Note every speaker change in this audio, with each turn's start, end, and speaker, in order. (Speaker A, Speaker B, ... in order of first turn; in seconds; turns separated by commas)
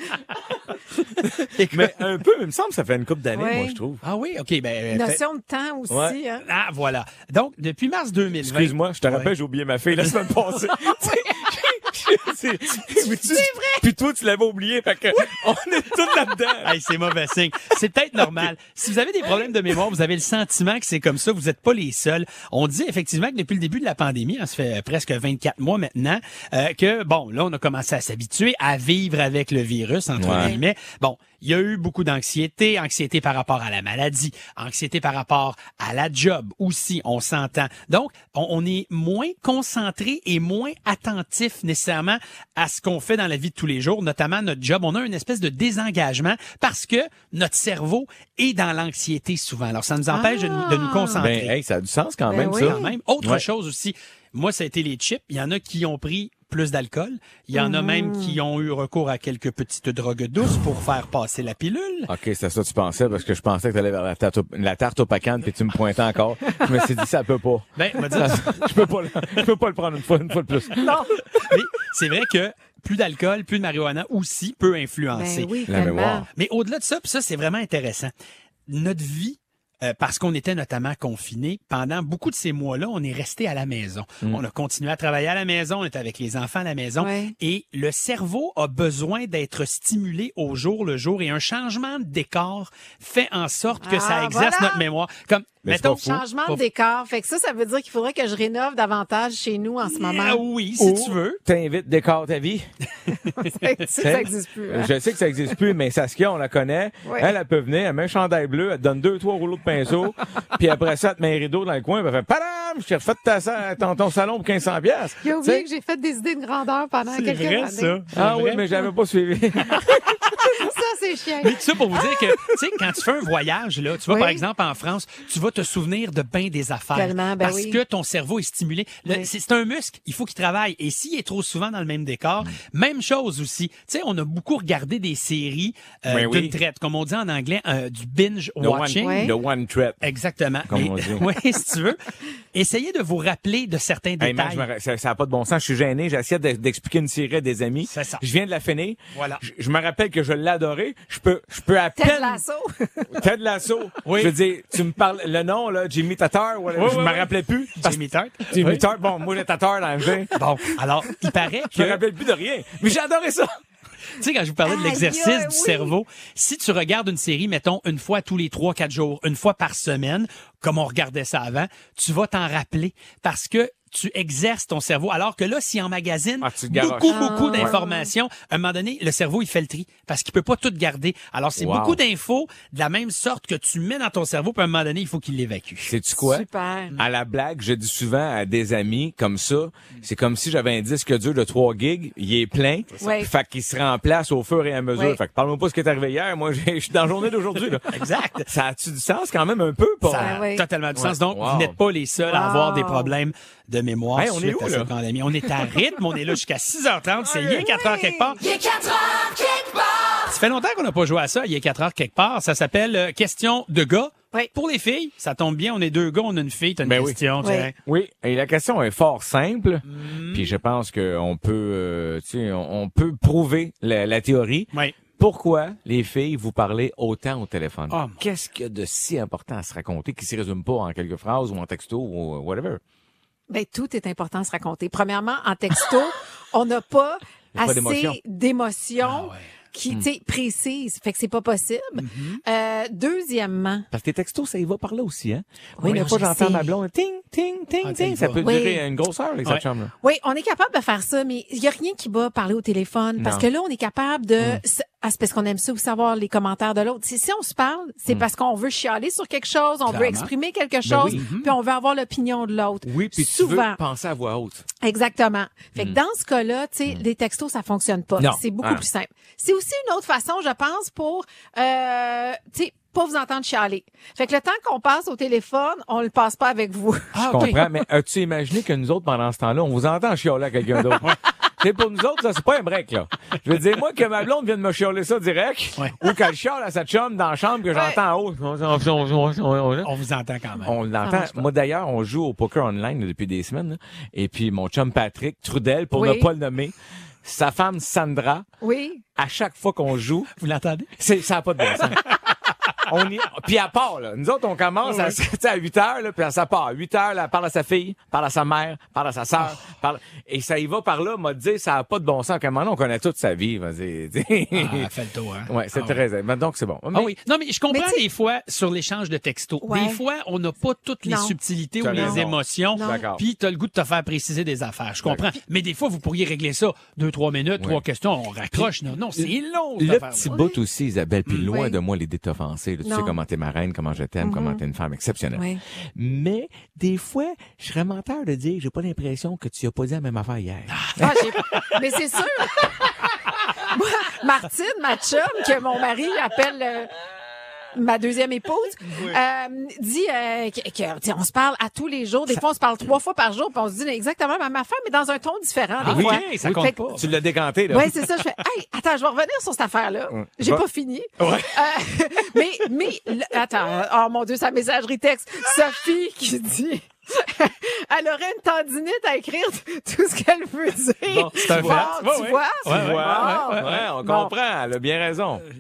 Speaker A: 1.5-1.9, Speaker B: 1.6-4.0, Speaker C: 3.4-3.8, Speaker A: 4.0-5.2, Speaker C: 4.9-6.4, Speaker B: 5.9-6.2, Speaker A: 6.4-9.3, Speaker B: 8.4-16.8, Speaker A: 9.9-10.3, Speaker C: 12.9-13.9, Speaker A: 16.6-51.5, Speaker B: 30.2-30.6, Speaker C: 30.3-30.6, Speaker C: 50.1-51.2, Speaker B: 51.2-53.4, Speaker C: 52.3-52.9, Speaker A: 52.4-62.1, Speaker C: 57.5-58.4, Speaker B: 62.1-71.0, Speaker A: 67.8-68.7, Speaker C: 70.8-71.1, Speaker A: 71.4-75.5, Speaker C: 75.1-76.2, Speaker B: 75.7-76.3, Speaker A: 76.3-78.1, Speaker A: 78.7-96.6, Speaker C: 87.0-87.3, Speaker C: 93.8-94.8, Speaker B: 95.6-96.2, Speaker C: 96.0-100.4, Speaker A: 99.8-101.4, Speaker B: 100.8-102.7, Speaker C: 103.3-104.9, Speaker B: 104.0-115.2, Speaker C: 107.0-107.3, Speaker C: 115.2-118.0, Speaker A: 117.1-118.7, Speaker B: 118.1-119.9, Speaker C: 120.3-122.2, Speaker A: 121.4-139.2, Speaker C: 124.1-124.4, Speaker C: 126.9-127.8, Speaker B: 136.1-136.6, Speaker B: 138.6-140.0, Speaker C: 139.0-139.3, Speaker A: 140.0-142.0, Speaker B: 140.7-141.3, Speaker A: 142.5-144.7, Speaker B: 144.2-152.4, Speaker A: 147.9-148.2, Speaker A: 149.2-149.4, Speaker C: 152.0-153.1, Speaker B: 153.1-160.3, Speaker A: 154.1-154.3, Speaker A: 156.8-158.8, Speaker A: 160.4-162.0, Speaker B: 161.7-163.6, Speaker A: 164.2-185.9, Speaker C: 164.7-165.9, Speaker B: 176.4-177.7, Speaker C: 177.1-178.1, Speaker B: 181.6-182.0, Speaker B: 185.8-197.9, Speaker C: 186.2-186.9, Speaker C: 193.0-193.3, Speaker A: 197.9-198.5, Speaker B: 198.5-200.4, Speaker A: 200.1-208.4, Speaker C: 200.2-200.6, Speaker B: 200.9-201.8, Speaker C: 202.3-203.1, Speaker B: 204.1-204.9, Speaker C: 207.3-208.4, Speaker A: 210.2-217.7, Speaker B: 216.8-217.2, Speaker C: 217.4-217.7, Speaker B: 217.8-232.8, Speaker A: 219.9-220.5, Speaker A: 224.7-225.0, Speaker A: 227.9-228.2, Speaker C: 233.5-243.9, Speaker B: 237.5-238.2, Speaker A: 239.0-239.4, Speaker A: 242.0-242.4, Speaker B: 243.9-249.9, Speaker C: 245.8-246.7, Speaker A: 245.8-246.1, Speaker A: 247.8-248.5, Speaker C: 248.4-248.8, Speaker C: 250.0-263.8, Speaker B: 253.2-253.5, Speaker A: 259.9-260.3, Speaker B: 260.9-261.2, Speaker A: 261.0-261.5, Speaker B: 262.9-264.7, Speaker C: 264.8-277.5, Speaker B: 268.2-268.8, Speaker A: 277.1-277.7, Speaker B: 277.3-289.9, Speaker A: 289.8-290.7, Speaker B: 290.6-298.5, Speaker C: 291.0-291.5, Speaker C: 295.9-296.3, Speaker C: 298.6-299.0, Speaker B: 299.2-300.3, Speaker A: 300.4-300.9, Speaker B: 301.0-302.2, Speaker B: 302.9-314.9, Speaker A: 304.9-305.2, Speaker A: 314.5-316.0, Speaker B: 315.5-317.1, Speaker A: 316.9-330.3, Speaker C: 317.7-318.0, Speaker C: 319.6-320.0, Speaker C: 321.0-321.4, Speaker B: 321.8-323.2, Speaker C: 321.9-322.2, Speaker C: 322.7-323.0, Speaker B: 328.5-341.2, Speaker C: 330.3-330.5, Speaker A: 331.3-331.5, Speaker C: 331.5-331.8, Speaker C: 332.8-333.2, Speaker C: 334.2-334.6, Speaker C: 335.3-335.6, Speaker A: 340.7-341.8, Speaker C: 341.0-342.9, Speaker C: 343.6-346.9, Speaker C: 347.7-356.8, Speaker A: 355.8-357.1, Speaker B: 355.9-358.0, Speaker C: 357.7-374.3, Speaker B: 360.1-360.6, Speaker A: 361.2-361.5, Speaker B: 371.1-372.0, Speaker A: 371.4-373.9, Speaker B: 372.6-375.5